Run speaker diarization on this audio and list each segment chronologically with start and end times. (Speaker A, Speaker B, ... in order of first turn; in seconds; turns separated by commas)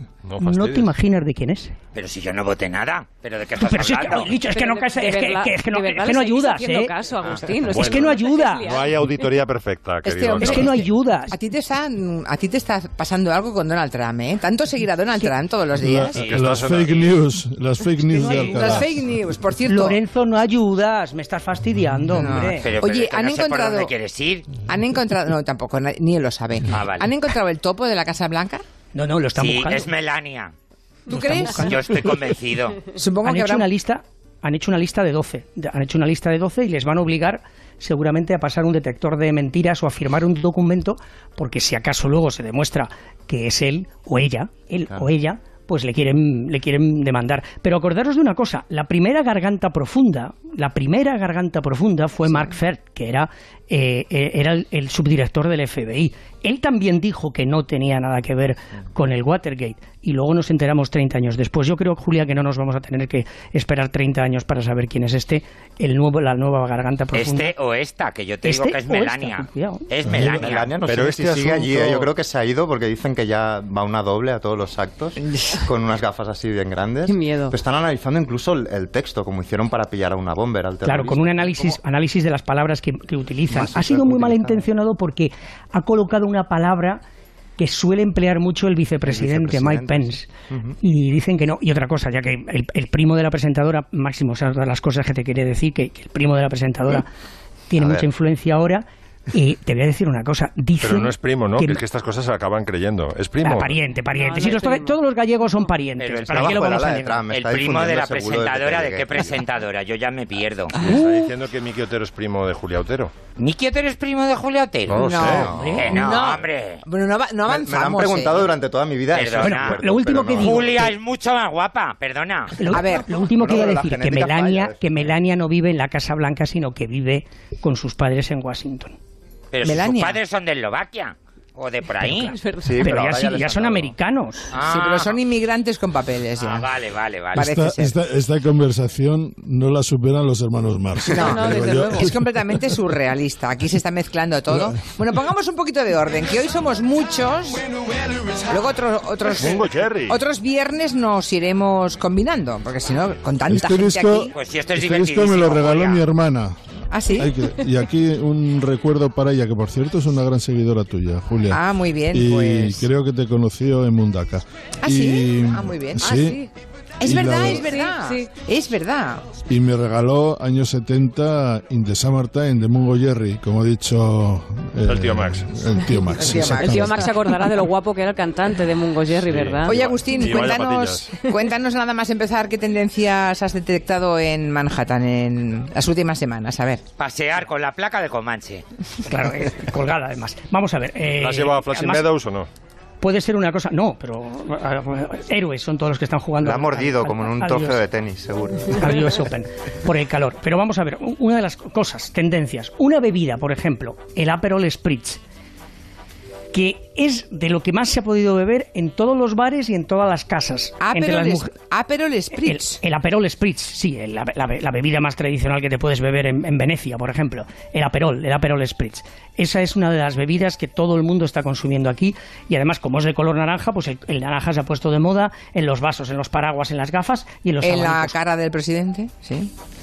Speaker A: 0.2-0.8, Speaker B: 0.4-1.7, Speaker C: 1.9-4.3, Speaker B: 3.6-6.9, Speaker D: 4.4-9.0, Speaker A: 7.7-10.9, Speaker B: 7.7-8.7, Speaker E: 10.0-16.2, Speaker B: 10.4-11.3, Speaker F: 15.8-19.0, Speaker C: 16.1-17.1, Speaker A: 16.1-17.0, Speaker B: 18.1-18.9, Speaker E: 18.1-20.0, Speaker B: 19.7-22.7, Speaker E: 22.1-23.9, Speaker C: 22.5-24.6, Speaker E: 24.6-28.6, Speaker C: 26.7-27.1, Speaker B: 28.9-29.9, Speaker C: 29.4-30.5, Speaker E: 31.1-31.9, Speaker B: 31.1-32.1, Speaker C: 31.6-32.8, Speaker E: 32.9-33.7, Speaker B: 33.2-67.5, Speaker C: 67.1-70.7, Speaker B: 68.4-69.9, Speaker F: 70.0-70.4, Speaker G: 70.1-81.8, Speaker A: 70.8-72.1, Speaker D: 77.1-77.5, Speaker B: 80.8-87.0, Speaker G: 83.5-84.7, Speaker B: 87.6-90.3, Speaker G: 89.0-90.8, Speaker B: 90.8-97.1, Speaker B: 97.7-101.8, Speaker G: 97.8-98.1, Speaker A: 100.8-103.8, Speaker B: 103.4-107.2, Speaker D: 104.1-105.0, Speaker C: 106.0-106.7, Speaker G: 106.2-109.4, Speaker C: 107.3-110.7, Speaker A: 110.8-113.1, Speaker B: 110.8-111.3, Speaker C: 113.4-115.2, Speaker A: 114.9-115.5, Speaker E: 115.0-118.5, Speaker G: 115.2-116.2, Speaker B: 115.5-116.1, Speaker C: 115.7-116.8, Speaker G: 117.5-120.8, Speaker C: 119.1-119.8, Speaker B: 119.4-120.9, Speaker C: 120.4-122.6, Speaker B: 122.6-128.9, Speaker E: 122.7-123.1, Speaker G: 123.2-125.1, Speaker C: 129.5-132.4, Speaker E: 129.6-130.2, Speaker D: 132.2-132.9, Speaker G: 132.6-133.9, Speaker B: 132.8-134.5, Speaker C: 134.5-135.2, Speaker E: 134.6-136.7, Speaker C: 136.4-137.5, Speaker E: 137.3-137.9, Speaker F: 137.3-142.8, Speaker E: 141.1-147.7, Speaker D: 141.2-142.1, Speaker F: 144.5-144.8, Speaker E: 148.5-154.3, Speaker A: 149.3-150.2, Speaker F: 153.5-156.6, Speaker C: 154.3-156.0, Speaker E: 156.9-157.3, Speaker F: 157.1-166.4, Speaker E: 161.5-162.9, Speaker E: 164.8-166.3, Speaker D: 166.0-166.5, Speaker E: 167.0-169.2, Speaker F: 167.0-167.7, Speaker D: 167.5-168.3, Speaker F: 169.5-177.2, Speaker A: 174.8-175.5, Speaker E: 176.1-177.1, Speaker D: 176.3-179.8, Speaker A: 179.3-181.1, Speaker E: 179.6-186.8, Speaker C: 187.0-188.6, Speaker B: 189.1-192.1, Speaker A: 191.2-192.5, Speaker B: 193.0-197.8, Speaker G: 196.4-198.8, Speaker B: 198.7-205.2, Speaker B: 206.5-211.5, Speaker E: 210.8-212.8, Speaker B: 212.3-228.2, Speaker E: 227.6-229.5